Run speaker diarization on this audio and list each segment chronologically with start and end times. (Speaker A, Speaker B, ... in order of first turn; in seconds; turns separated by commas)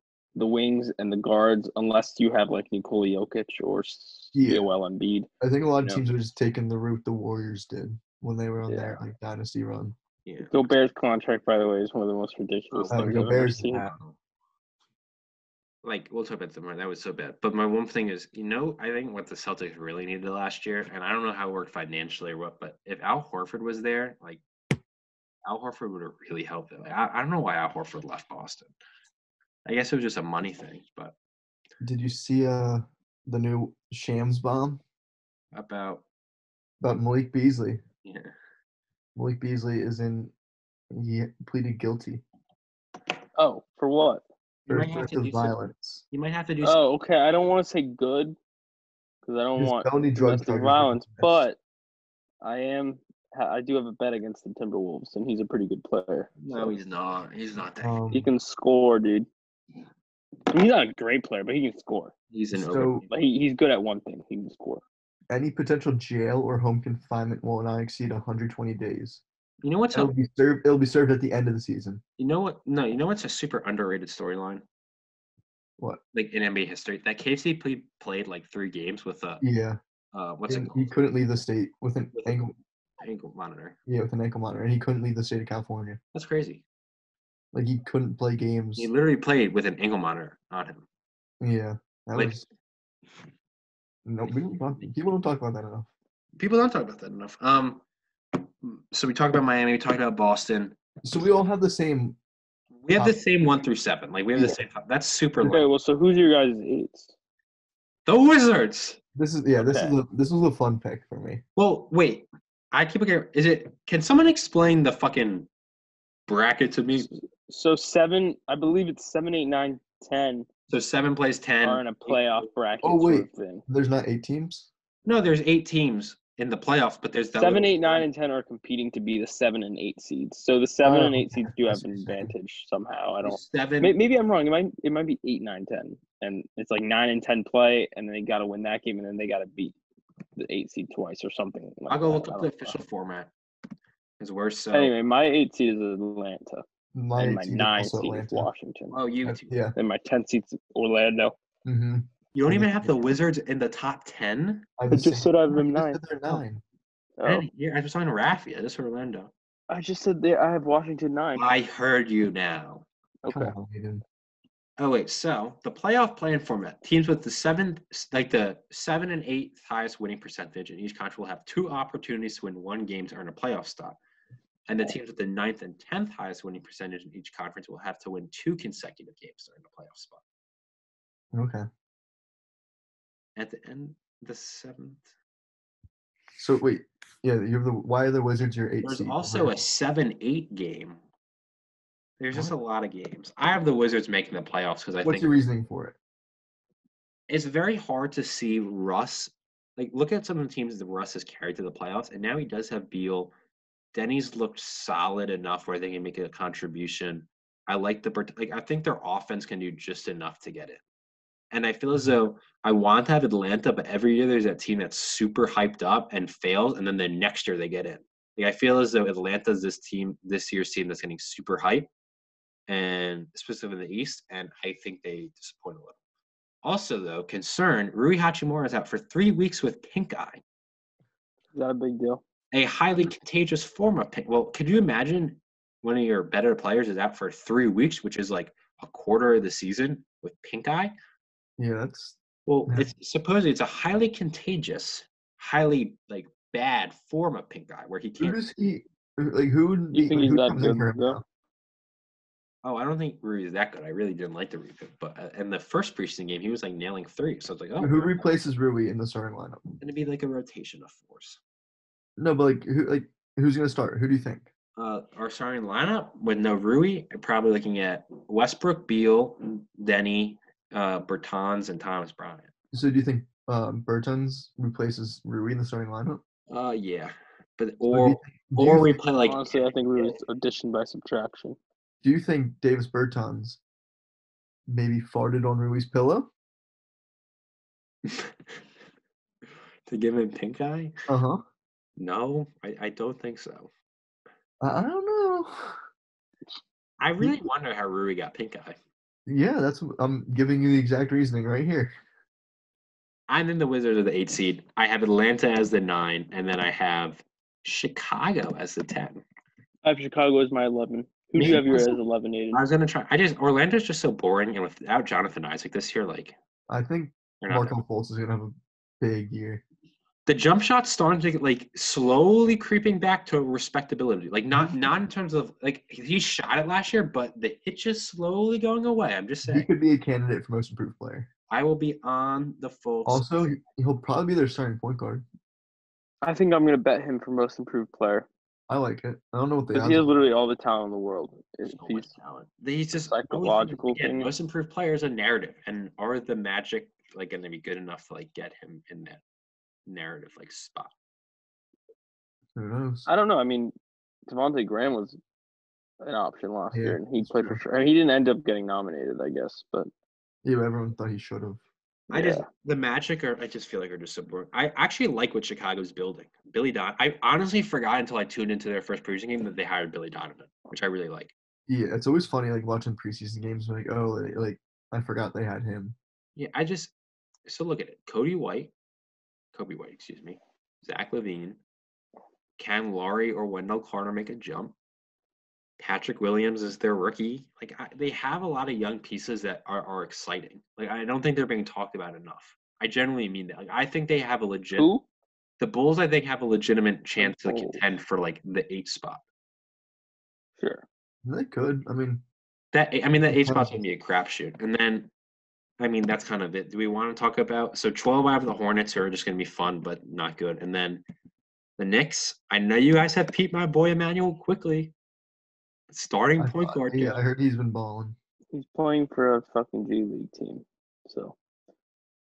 Speaker A: 0.3-5.3, Speaker B: 4.3-4.7, Speaker B: 5.4-10.0, Speaker A: 8.7-9.0, Speaker C: 10.2-10.7, Speaker A: 10.5-13.8, Speaker C: 12.7-14.2, Speaker B: 12.9-13.9, Speaker C: 15.8-24.4, Speaker C: 25.4-28.7, Speaker C: 29.6-31.1, Speaker B: 31.8-34.8, Speaker C: 35.5-36.0, Speaker B: 36.8-37.8, Speaker C: 38.0-38.3, Speaker B: 39.1-40.3, Speaker B: 40.9-42.2, Speaker A: 43.4-44.2, Speaker B: 44.7-46.0, Speaker C: 44.7-45.6, Speaker C: 46.1-46.8, Speaker A: 46.6-48.4, Speaker A: 49.2-51.6, Speaker B: 49.6-51.5, Speaker A: 52.4-56.9, Speaker C: 56.4-58.0, Speaker B: 57.8-58.3, Speaker A: 58.1-59.3, Speaker A: 60.5-62.1, Speaker C: 62.3-63.0, Speaker B: 62.5-63.0, Speaker A: 63.1-64.8, Speaker B: 65.3-69.2, Speaker C: 69.6-70.1, Speaker B: 69.9-72.0, Speaker C: 72.2-74.6, Speaker C: 76.1-79.4, Speaker B: 79.4-79.8, Speaker C: 80.1-81.0, Speaker B: 80.5-82.5, Speaker C: 82.1-82.5, Speaker C: 83.0-83.8, Speaker B: 83.9-86.0, Speaker C: 86.1-86.6, Speaker B: 87.5-88.9, Speaker C: 88.8-90.9, Speaker B: 91.4-92.5, Speaker C: 92.2-92.4, Speaker B: 94.0-95.9, Speaker C: 94.3-95.0, Speaker C: 96.4-97.8, Speaker C: 98.3-100.8, Speaker B: 101.0-102.2, Speaker C: 102.8-105.7, Speaker A: 105.5-107.1, Speaker C: 108.1-109.0, Speaker B: 109.2-111.4, Speaker A: 109.6-110.0, Speaker C: 111.6-115.5, Speaker C: 116.3-117.1, Speaker A: 117.0-120.5, Speaker C: 120.7-122.5, Speaker A: 121.6-123.7, Speaker B: 122.8-124.7, Speaker C: 125.0-128.1, Speaker A: 127.3-139.8, Speaker B: 130.8-132.3, Speaker C: 133.2-134.0, Speaker A: 140.4-142.8, Speaker C: 141.9-143.3, Speaker C: 144.2-144.9, Speaker A: 144.7-146.6, Speaker B: 146.9-148.5, Speaker A: 147.2-149.0, Speaker C: 148.9-149.5, Speaker B: 149.2-149.8, Speaker A: 149.8-151.3, Speaker B: 151.7-152.9, Speaker C: 152.3-154.7, Speaker B: 154.8-156.6, Speaker A: 154.9-156.4, Speaker A: 157.2-157.5, Speaker C: 157.2-159.3, Speaker A: 159.7-161.5, Speaker C: 161.4-162.9, Speaker A: 163.2-163.6, Speaker B: 163.3-164.0, Speaker C: 164.8-174.0, Speaker C: 174.7-180.2, Speaker B: 181.3-181.7, Speaker C: 183.4-185.1, Speaker B: 186.4-189.5, Speaker C: 188.8-191.0, Speaker C: 192.2-195.4, Speaker B: 195.0-196.0, Speaker C: 197.3-203.3, Speaker C: 203.9-210.8, Speaker C: 211.5-221.9, Speaker C: 222.7-226.0, Speaker C: 226.6-230.4, Speaker A: 231.5-232.2, Speaker C: 232.5-240.9, Speaker B: 241.6-242.9, Speaker C: 242.5-248.4, Speaker B: 248.2-251.2, Speaker A: 249.9-251.2, Speaker C: 252.6-258.3, Speaker B: 257.8-259.6, Speaker C: 259.8-261.4, Speaker B: 262.2-264.5, Speaker C: 264.8-272.5, Speaker B: 272.7-276.2, Speaker C: 276.5-280.2, Speaker B: 277.9-279.0, Speaker A: 279.2-281.6, Speaker B: 282.0-283.6, Speaker B: 284.7-286.3, Speaker C: 288.1-288.6, Speaker C: 289.9-290.9, Speaker B: 291.1-291.4, Speaker C: 292.0-293.7, Speaker B: 294.6-295.8, Speaker C: 297.0-298.8, Speaker B: 299.3-301.9, Speaker C: 303.3-309.2, Speaker A: 309.8-312.6, Speaker C: 311.4-312.0, Speaker C: 312.5-316.4, Speaker B: 316.7-319.6, Speaker C: 317.4-317.8, Speaker C: 320.3-329.7, Speaker B: 329.4-331.3, Speaker C: 331.5-333.5, Speaker B: 333.1-335.2, Speaker A: 336.2-338.3, Speaker B: 338.7-340.1, Speaker A: 339.7-342.1, Speaker C: 341.7-349.2, Speaker A: 342.9-344.3, Speaker C: 349.9-350.9, Speaker B: 352.6-353.1, Speaker A: 353.1-353.7, Speaker A: 354.3-355.2, Speaker A: 356.0-359.9, Speaker B: 356.7-357.6, Speaker B: 360.4-361.6, Speaker A: 362.1-362.5, Speaker C: 362.1-371.3, Speaker B: 371.7-376.0, Speaker C: 376.4-376.9, Speaker C: 377.5-378.7, Speaker C: 379.5-381.6, Speaker C: 382.6-384.8, Speaker C: 385.8-394.9, Speaker A: 394.8-395.1, Speaker C: 395.6-399.2, Speaker A: 397.2-397.8, Speaker A: 400.6-400.9, Speaker B: 401.2-402.2, Speaker C: 402.7-405.1, Speaker B: 403.3-403.8, Speaker C: 405.8-411.0, Speaker C: 411.8-414.9, Speaker C: 415.9-417.2, Speaker B: 416.4-418.2, Speaker A: 418.5-421.4